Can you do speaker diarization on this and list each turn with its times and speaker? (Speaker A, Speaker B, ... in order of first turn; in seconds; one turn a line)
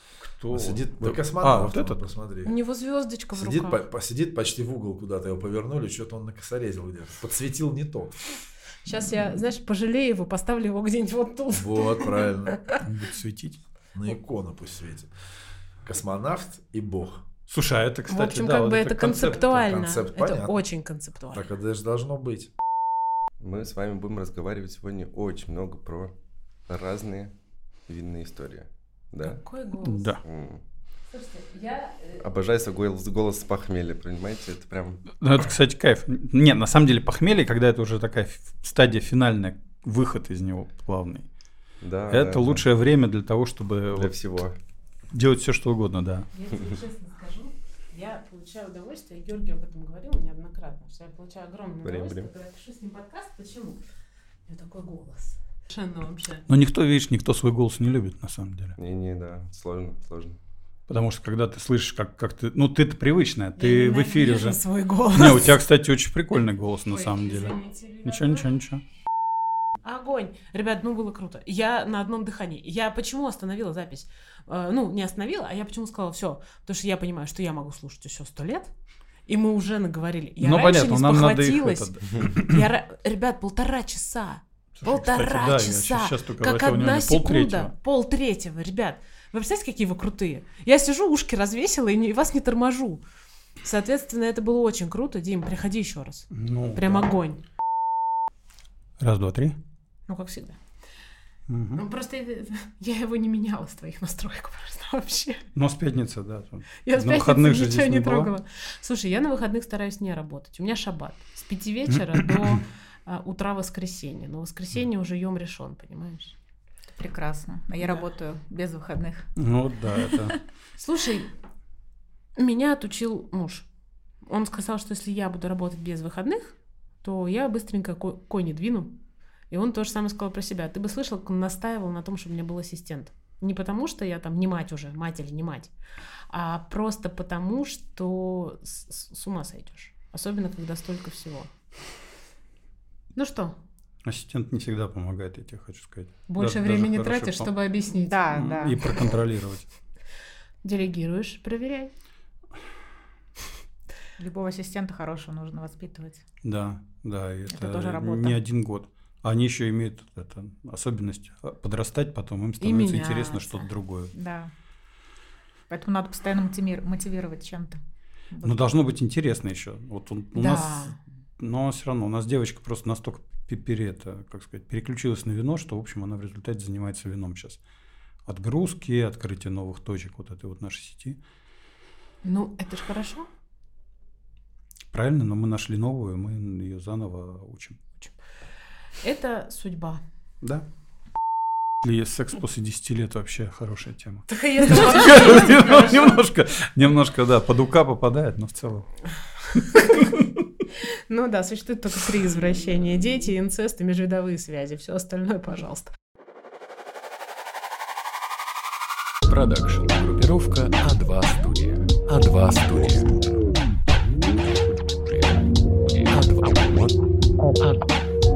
Speaker A: 0.2-2.1
Speaker B: 0.5-2.5
Speaker C: 2.4-3.8
Speaker B: 3.3-8.3
Speaker C: 8.8-12.8
Speaker B: 11.5-12.6
Speaker A: 12.8-13.6
Speaker B: 13.9-15.1
Speaker B: 15.8-17.2
Speaker A: 17.5-19.5
Speaker C: 18.1-21.5
Speaker B: 19.5-20.6
Speaker B: 21.3-22.5
Speaker D: 23.4-26.1
Speaker D: 26.7-27.3
Speaker D: 27.9-29.4
Speaker C: 29.2-30.1
Speaker A: 29.8-30.2
Speaker D: 30.2-30.6
Speaker C: 31.1-32.2
Speaker D: 32.2-35.0
Speaker A: 35.2-41.3
Speaker D: 41.8-42.6
Speaker A: 42.1-44.1
Speaker D: 43.9-44.5
Speaker A: 45.1-46.3
Speaker C: 46.3-53.8
Speaker D: 51.8-52.3
Speaker C: 54.5-56.4
Speaker A: 56.5-58.8
Speaker D: 58.8-60.4
Speaker A: 60.9-64.6
Speaker C: 63.6-65.6
Speaker A: 65.1-68.8
Speaker C: 66.9-68.5
Speaker C: 69.8-78.7
Speaker C: 79.2-93.0
Speaker A: 80.4-82.6
Speaker A: 84.8-87.7
Speaker C: 93.6-97.4
Speaker A: 96.3-97.0
Speaker A: 99.0-99.6
Speaker C: 100.1-100.6
Speaker A: 101.5-101.8
Speaker C: 101.7-105.5
Speaker A: 105.5-108.3
Speaker C: 106.8-116.3
Speaker A: 112.1-112.5
Speaker E: 117.0-119.3
Speaker A: 119.4-120.4
Speaker E: 119.9-120.4
Speaker C: 120.8-121.3
Speaker C: 122.3-123.7
Speaker C: 124.2-128.9
Speaker C: 129.5-135.7
Speaker C: 136.3-141.5
Speaker C: 143.1-143.6
Speaker A: 144.0-147.5
Speaker C: 146.3-148.3
Speaker E: 147.9-148.8
Speaker A: 148.3-149.7
Speaker C: 150.6-151.9
Speaker E: 154.2-156.2
Speaker A: 156.4-164.1
Speaker E: 157.5-158.4
Speaker C: 162.6-163.6
Speaker E: 164.1-164.5
Speaker E: 165.7-167.8
Speaker E: 168.3-168.7
Speaker A: 168.4-177.6
Speaker C: 170.3-170.9
Speaker A: 178.2-181.2
Speaker C: 182.2-183.3
Speaker A: 184.9-187.8
Speaker C: 189.0-190.0
Speaker A: 191.8-199.0
Speaker C: 194.3-196.2
Speaker A: 199.6-200.2
Speaker C: 199.6-200.1
Speaker C: 200.9-205.9
Speaker F: 209.2-213.5
Speaker F: 214.2-217.0
Speaker F: 217.6-218.0